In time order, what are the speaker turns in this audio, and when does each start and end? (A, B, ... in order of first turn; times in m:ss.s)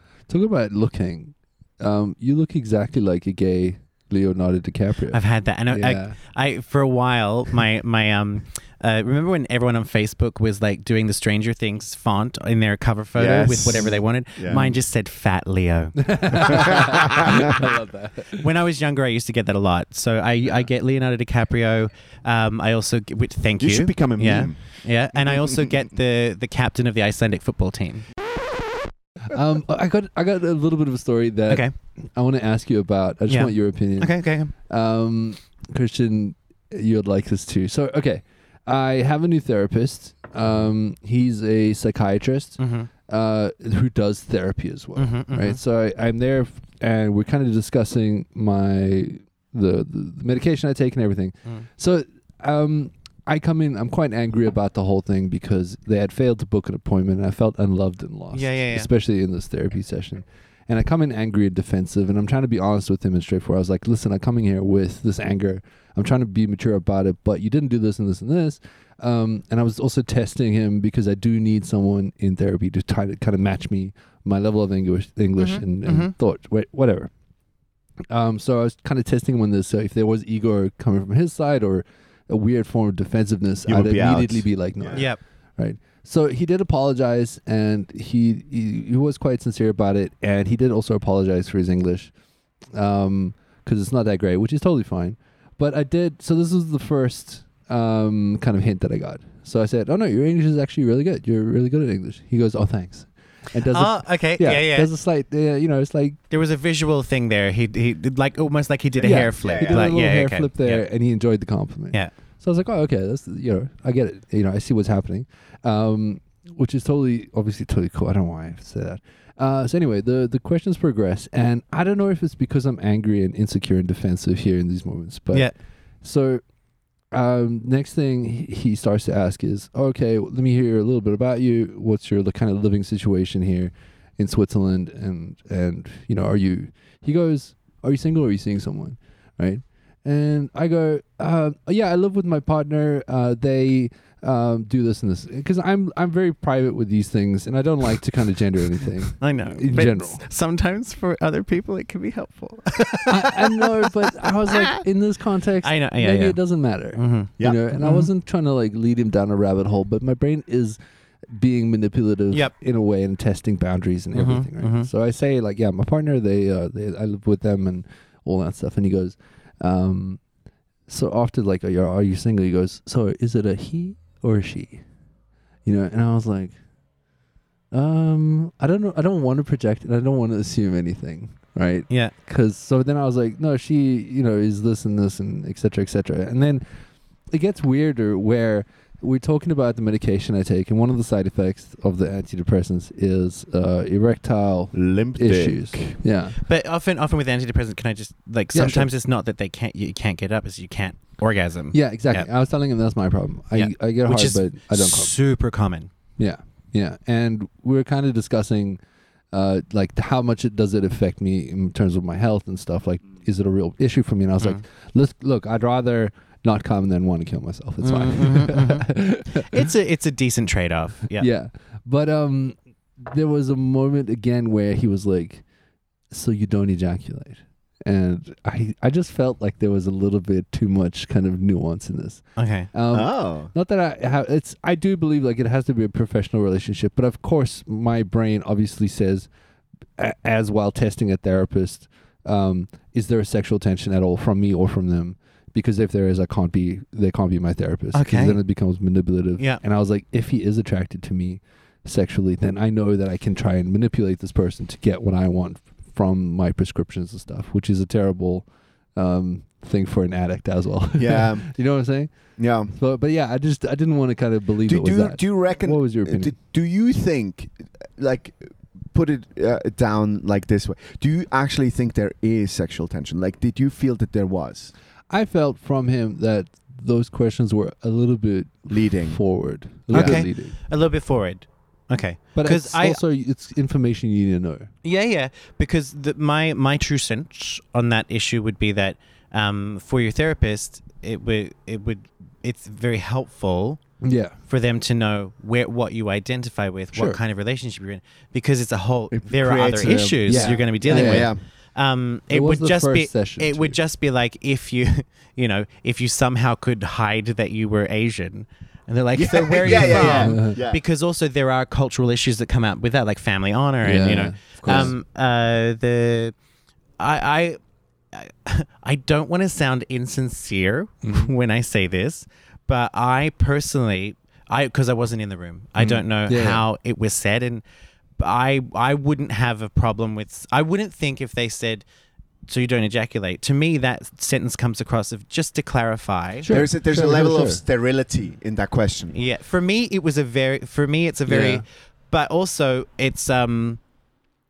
0:00.3-0:06.2 A
0:05.1-0:17.6 B
0:13.2-0:14.8 C
0:16.0-0:18.4 A
0:18.3-0:28.0 B
0:23.6-0:24.6 C
0:25.2-0:25.7 C
0:29.3-1:17.1 A
0:33.3-0:34.5 B
0:42.6-0:42.9 B
0:45.0-0:45.6 B
0:58.3-0:58.9 B
1:15.4-1:16.1 B
1:18.1-1:32.1 A
1:23.7-1:25.1 C
1:24.9-1:25.2 B
1:32.7-1:46.2 A
1:43.7-1:44.9 B
1:46.3-1:50.8 B
1:49.0-2:05.5 A
1:49.4-1:49.9 C
2:06.0-2:06.4 A
2:07.1-2:30.2 A
2:29.2-2:33.8 B
2:33.1-2:40.8 A
2:34.5-2:34.8 B
2:35.6-2:36.4 B
2:36.9-2:38.1 B
2:41.3-2:50.2 A
2:44.1-2:44.9 B
2:50.9-2:54.8 A
2:55.6-2:56.5 A
2:57.7-3:06.6 A
3:07.3-3:16.4 A
3:14.7-3:16.0 C
3:16.4-3:22.3 B
3:18.5-3:18.9 A
3:21.7-3:25.1 A
3:23.5-3:25.9 B
3:26.2-3:28.8 A
3:29.3-3:39.7 A
3:37.8-3:41.3 B
3:41.2-3:45.4 A
3:46.1-3:59.3 A
3:52.4-3:52.7 B
3:52.9-3:53.5 C
4:00.0-4:26.3 A
4:07.9-4:08.4 B
4:21.0-4:21.5 C
4:22.4-4:22.7 C
4:24.7-4:34.7 C
4:35.1-4:40.6 A
4:38.7-4:39.2 C
4:39.9-4:40.2 C
4:39.9-4:43.0 B
4:42.3-4:44.7 A
4:44.8-4:53.8 B
4:54.0-4:54.4 A
4:54.5-5:16.3 B
4:56.9-4:57.2 A
4:59.1-5:01.4 C
4:59.8-5:01.3 A
5:02.3-5:03.8 A
5:09.2-5:10.8 C
5:09.6-5:10.6 A
5:13.8-5:14.9 A
5:14.6-5:14.9 C
5:17.0-5:17.6 B
5:18.1-5:27.6 B
5:21.0-5:21.3 A
5:25.8-5:26.6 A
5:28.2-5:31.8 B
5:32.5-5:36.5 B
5:36.4-5:37.6 A
5:36.5-5:39.2 C
5:39.1-5:43.8 B
5:41.3-5:41.6 A